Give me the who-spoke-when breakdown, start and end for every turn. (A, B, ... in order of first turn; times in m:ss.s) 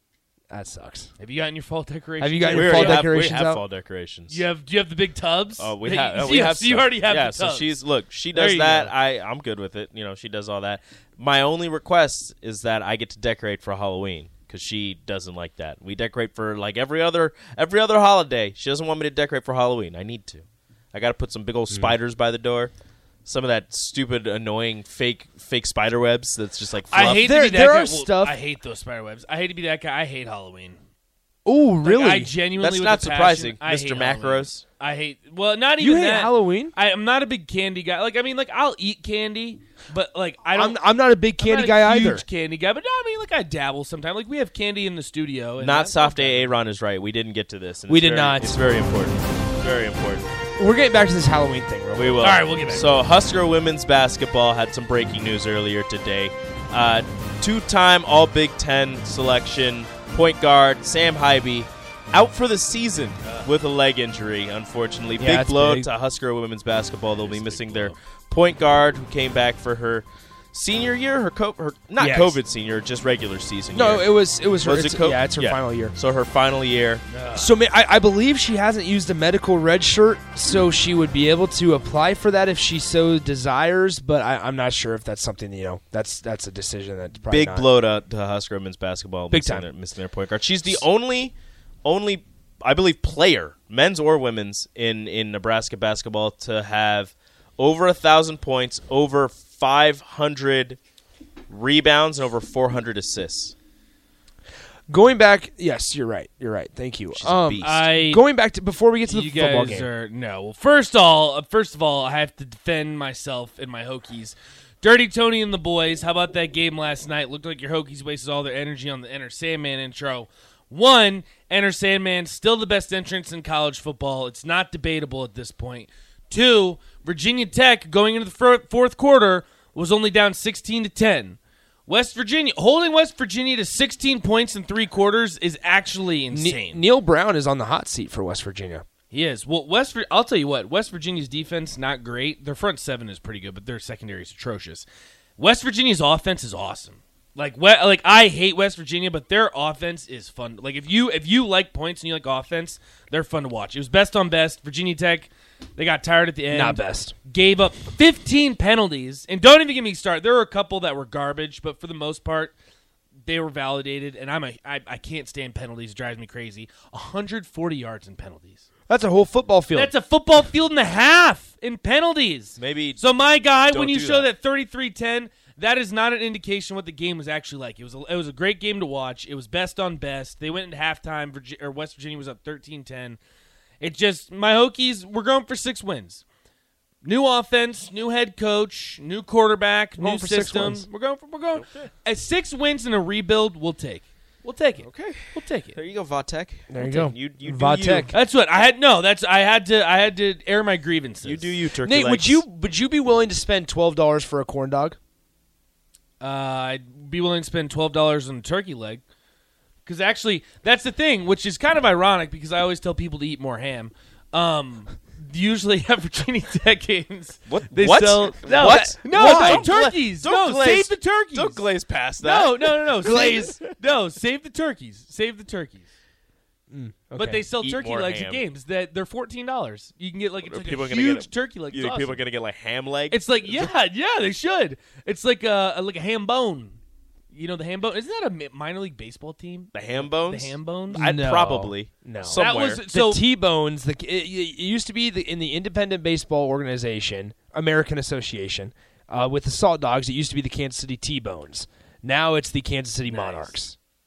0:00.5-0:01.1 A
0:01.2-0:03.2 B
0:02.2-0:03.6 A
0:02.5-0:04.4 C
0:04.3-0:07.8 B
0:05.6-0:22.7 C
0:08.3-0:08.9 B
0:23.2-0:27.3 C
0:26.9-0:30.8 B
0:27.1-0:28.4 A
0:31.4-0:32.3 A
0:31.8-0:40.8 B
0:32.6-0:34.6 C
0:35.8-0:36.7 A
0:40.5-0:42.2 A
0:41.4-0:46.6 B
0:45.6-0:50.2 C
0:47.9-0:48.7 A
0:50.6-0:52.3 A
0:52.0-1:17.0 C
0:52.2-0:53.0 B
1:03.2-1:03.5 B
1:05.2-1:05.9 A
1:07.1-1:08.0 B
1:12.0-1:12.4 A
1:13.7-1:15.9 A
1:17.1-1:17.5 B
1:17.3-1:27.7 A
1:27.3-1:40.8 C
1:29.3-1:29.7 A
1:41.5-1:43.5 C
1:44.9-1:49.9 A
1:47.1-1:47.8 C
1:47.6-1:48.2 B
1:49.0-2:16.8 B
2:16.3-2:18.8 A
2:19.1-2:24.9 B
2:25.4-2:42.5 B
2:36.5-2:37.1 A
2:43.2-2:48.6 B
2:48.9-2:49.9 A
2:49.7-3:03.2 B
2:52.6-2:53.0 C
2:53.6-2:54.3 C
3:03.8-3:06.2 B
3:07.0-3:15.8 B
3:10.0-3:10.9 A
3:11.6-3:11.9 C
3:14.8-3:18.1 C
3:16.7-3:18.2 A
3:18.1-3:21.6 B
3:21.2-3:22.4 C
3:21.8-3:25.0 A
3:26.2-3:29.0 B
3:29.8-3:41.6 B
3:37.5-3:43.7 C
3:38.7-3:39.6 A
3:42.2-3:45.9 B
3:43.0-3:43.5 A
3:46.7-3:47.5 A
3:47.2-3:52.2 B
3:47.6-3:48.4 C
3:50.4-3:53.4 C
3:53.1-3:56.8 B
3:57.3-4:01.1 B
3:59.7-4:02.8 C
4:00.9-4:13.8 A
4:02.4-4:03.2 B
4:13.0-4:13.6 B